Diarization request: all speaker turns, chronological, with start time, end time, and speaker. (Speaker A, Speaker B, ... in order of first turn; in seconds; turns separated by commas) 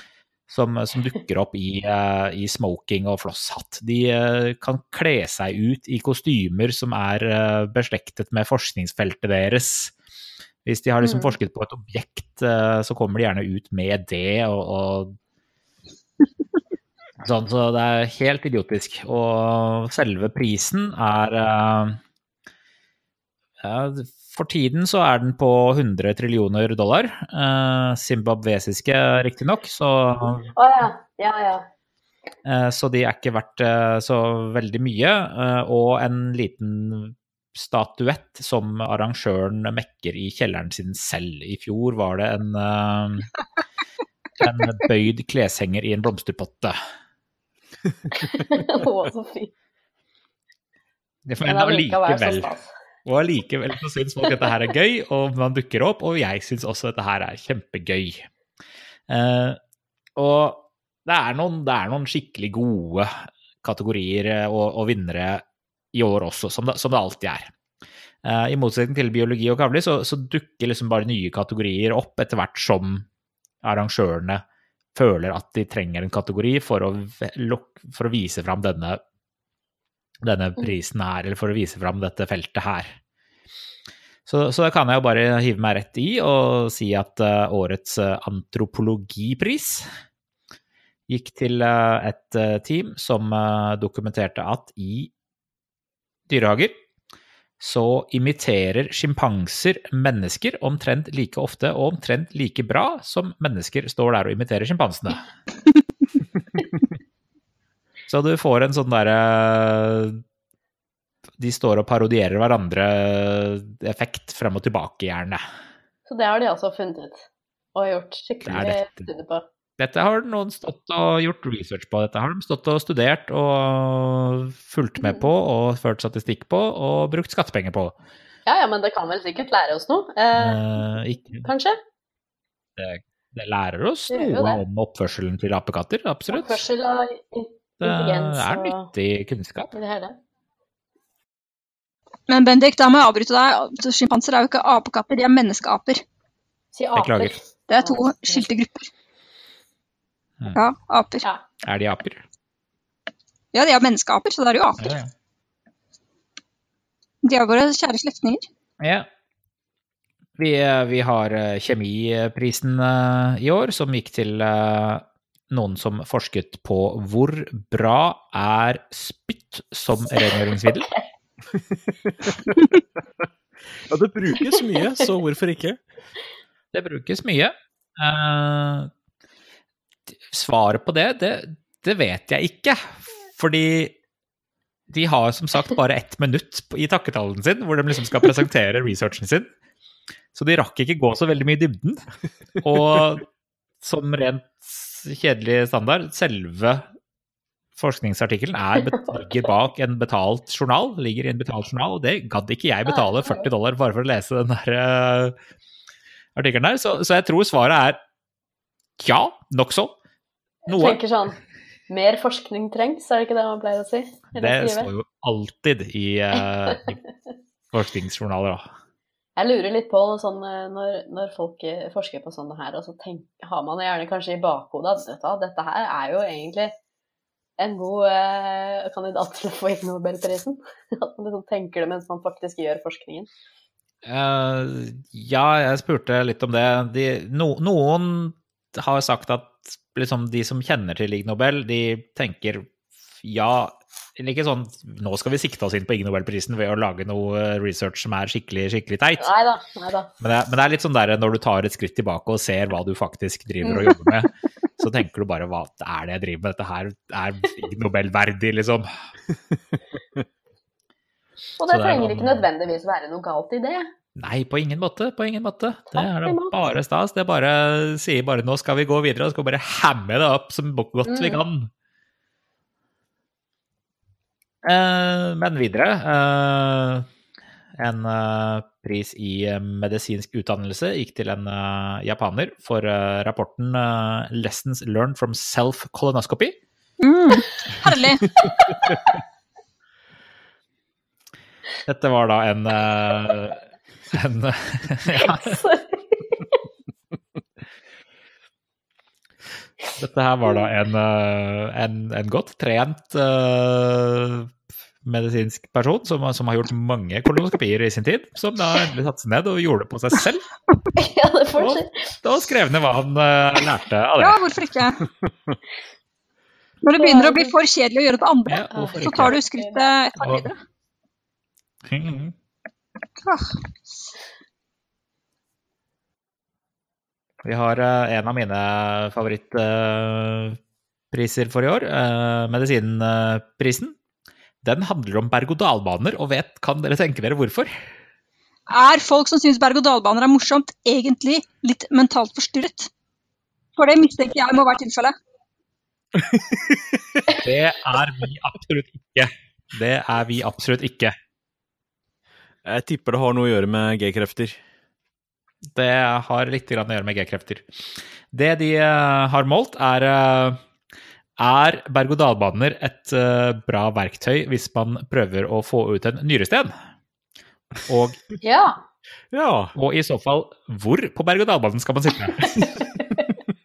Speaker A: 0.5-9.9, Speaker A: 10.7-15.2, Speaker B: 11.0-11.3, Speaker A: 17.2-22.0, Speaker A: 23.6-30.5, Speaker B: 30.5-31.7, Speaker A: 32.5-43.3, Speaker A: 44.4-46.8, Speaker B: 48.2-49.5, Speaker A: 51.2-52.5, Speaker B: 51.4-52.7, Speaker A: 53.0-58.3, Speaker A: 59.1-59.6, Speaker A: 60.2-67.5, Speaker A: 68.2-73.1, Speaker A: 73.6-74.4, Speaker A: 75.0-79.0, Speaker A: 80.2-83.0, Speaker A: 84.3-89.9, Speaker A: 91.1-95.1, Speaker A: 96.3-96.7, Speaker A: 97.6-105.3, Speaker A: 108.1-110.2, Speaker A: 111.4-115.4, Speaker B: 116.1-119.5, Speaker A: 118.5-119.1, Speaker A: 119.8-128.0, Speaker B: 128.5-131.8, Speaker A: 130.3-131.5, Speaker A: 132.8-136.6, Speaker B: 134.1-134.6, Speaker B: 136.3-138.9, Speaker A: 137.8-139.7, Speaker B: 139.7-140.2, Speaker C: 142.3-146.0, Speaker B: 146.7-148.5, Speaker A: 146.9-147.3, Speaker C: 147.7-148.9, Speaker C: 150.5-151.2, Speaker A: 151.6-152.2, Speaker C: 153.5-154.8, Speaker A: 154.8-155.1, Speaker C: 157.2-158.5, Speaker A: 158.8-159.1, Speaker A: 160.4-170.9, Speaker D: 171.6-172.4, Speaker D: 173.9-175.8, Speaker A: 176.7-178.9, Speaker A: 180.3-184.0, Speaker A: 184.9-189.5, Speaker A: 190.3-192.0, Speaker A: 192.6-193.3, Speaker A: 193.8-196.9, Speaker A: 197.8-205.4, Speaker B: 198.9-199.3, Speaker B: 202.9-203.4, Speaker A: 206.4-208.0, Speaker A: 209.0-209.9, Speaker B: 210.7-211.4, Speaker A: 210.7-211.0, Speaker B: 211.9-214.9, Speaker A: 214.3-217.0, Speaker A: 217.7-218.7, Speaker B: 219.4-226.7, Speaker B: 227.6-233.3, Speaker A: 234.1-249.3, Speaker B: 249.2-250.1, Speaker A: 250.2-258.9, Speaker B: 253.6-254.0, Speaker B: 261.6-263.9, Speaker A: 261.7-262.5, Speaker A: 264.2-271.7, Speaker B: 265.9-266.6, Speaker B: 271.1-271.4, Speaker A: 274.6-277.1, Speaker A: 277.8-286.6, Speaker C: 287.0-288.3, Speaker B: 288.6-288.9, Speaker A: 291.9-295.6, Speaker B: 295.2-296.6, Speaker A: 300.0-304.5, Speaker A: 305.0-310.5, Speaker B: 311.0-312.1, Speaker A: 311.6-314.4, Speaker C: 314.2-315.0, Speaker C: 316.8-320.6, Speaker B: 317.0-317.6, Speaker A: 318.5-319.4, Speaker B: 318.7-319.9, Speaker A: 320.2-320.5, Speaker A: 321.9-322.3, Speaker C: 323.2-323.6, Speaker A: 327.4-330.6, Speaker A: 331.1-334.0, Speaker A: 334.6-337.7, Speaker C: 338.7-342.9, Speaker C: 343.8-345.1, Speaker D: 346.1-347.2, Speaker A: 347.3-351.1, Speaker D: 352.6-354.6, Speaker A: 355.7-360.6, Speaker A: 361.4-366.7, Speaker A: 367.9-368.2, Speaker B: 368.4-368.8, Speaker D: 369.3-369.7, Speaker A: 369.8-372.8, Speaker B: 372.4-373.2